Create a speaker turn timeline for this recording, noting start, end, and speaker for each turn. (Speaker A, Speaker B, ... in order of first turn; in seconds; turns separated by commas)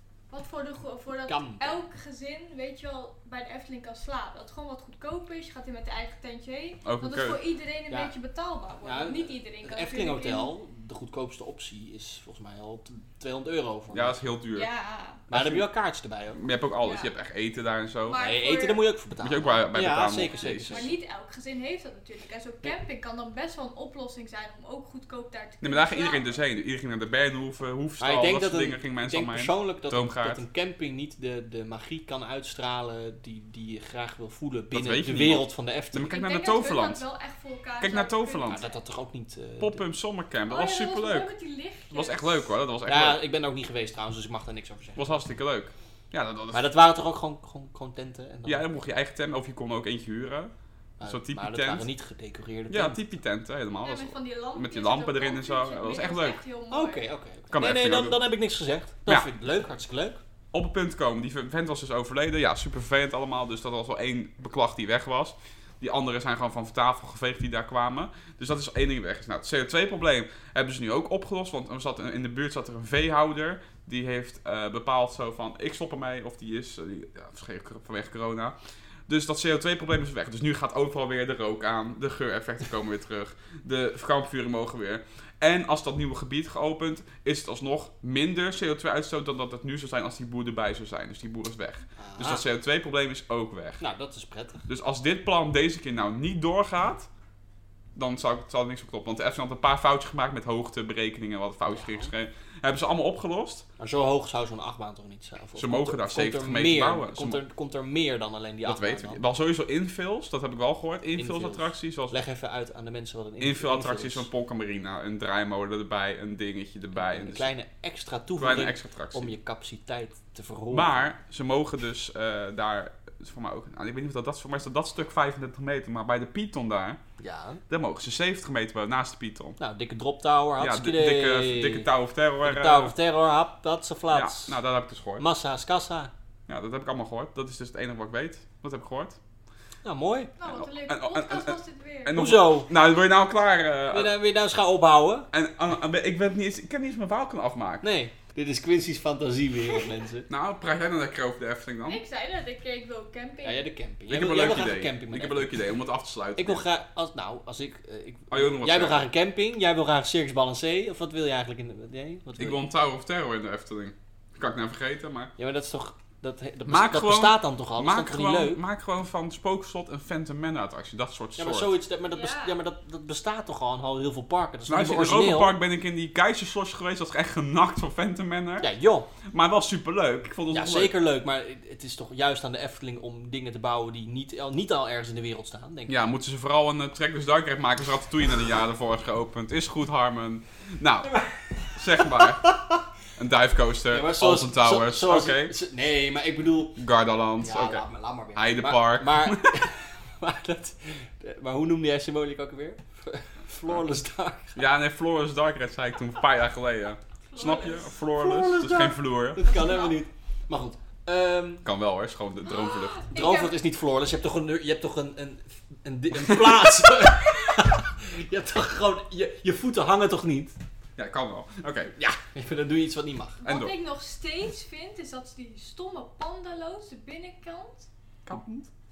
Speaker A: 0.3-10.5, Speaker B: 1.3-1.8, Speaker C: 6.8-7.4, Speaker B: 8.8-14.2, Speaker C: 13.9-14.7, Speaker A: 14.5-15.2, Speaker B: 15.3-16.4, Speaker C: 15.3-15.7, Speaker C: 16.3-18.2, Speaker A: 16.8-17.1, Speaker A: 18.1-18.8, Speaker B: 18.1-20.9, Speaker C: 19.2-20.9, Speaker A: 20.3-26.3, Speaker C: 25.6-30.4, Speaker B: 28.0-36.1, Speaker C: 34.7-37.0, Speaker A: 36.1-38.8, Speaker C: 37.8-38.6, Speaker B: 38.5-39.8, Speaker C: 39.6-41.3, Speaker A: 40.5-42.5, Speaker C: 41.9-43.2, Speaker B: 42.9-45.1, Speaker C: 45.0-46.6, Speaker B: 46.5-48.6, Speaker C: 48.5-50.5, Speaker B: 51.0-53.0, Speaker C: 51.0-51.9, Speaker C: 52.7-56.4, Speaker A: 53.8-57.0, Speaker B: 56.7-60.2, Speaker C: 57.5-58.2, Speaker C: 60.5-78.5, Speaker C: 79.1-93.8, Speaker B: 92.0-92.4, Speaker B: 93.8-94.6, Speaker C: 94.7-97.1, Speaker C: 98.0-103.7, Speaker B: 101.7-102.1, Speaker B: 103.8-109.2, Speaker C: 105.6-107.4, Speaker C: 108.6-112.2, Speaker B: 111.2-114.2, Speaker C: 113.4-117.5, Speaker B: 117.0-121.0, Speaker C: 118.4-119.3, Speaker C: 120.7-127.0, Speaker B: 127.2-127.6, Speaker C: 127.7-129.6, Speaker B: 129.6-131.9, Speaker C: 130.6-132.9, Speaker B: 132.4-134.6, Speaker C: 134.1-135.2, Speaker B: 135.2-136.1, Speaker C: 136.5-139.2, Speaker B: 139.8-140.3, Speaker A: 140.4-142.2, Speaker C: 140.4-144.1, Speaker B: 142.1-142.7, Speaker B: 143.9-145.3, Speaker C: 145.3-147.8, Speaker B: 147.8-150.3, Speaker C: 150.3-152.0, Speaker A: 151.9-153.7, Speaker B: 153.4-155.6, Speaker C: 154.1-156.6, Speaker B: 156.4-162.6, Speaker C: 158.3-159.0, Speaker C: 162.4-165.3, Speaker B: 165.4-168.6, Speaker C: 166.7-171.7, Speaker B: 171.4-175.5, Speaker A: 172.1-172.6, Speaker C: 174.7-178.7, Speaker B: 178.6-179.1, Speaker C: 179.3-180.9, Speaker B: 180.5-185.9, Speaker C: 185.9-191.1, Speaker B: 191.0-192.8, Speaker C: 191.7-192.4, Speaker C: 193.2-195.5, Speaker B: 193.9-196.8, Speaker C: 196.8-197.8, Speaker B: 197.4-204.6, Speaker C: 198.3-199.6, Speaker C: 204.6-209.5, Speaker A: 207.3-207.9, Speaker B: 208.1-211.6, Speaker A: 209.4-210.0, Speaker C: 211.6-213.1, Speaker A: 212.4-213.6, Speaker B: 213.1-220.6, Speaker C: 216.3-216.6, Speaker C: 221.0-221.9, Speaker B: 221.9-223.4, Speaker A: 223.4-227.9, Speaker C: 223.4-223.7, Speaker C: 228.2-228.7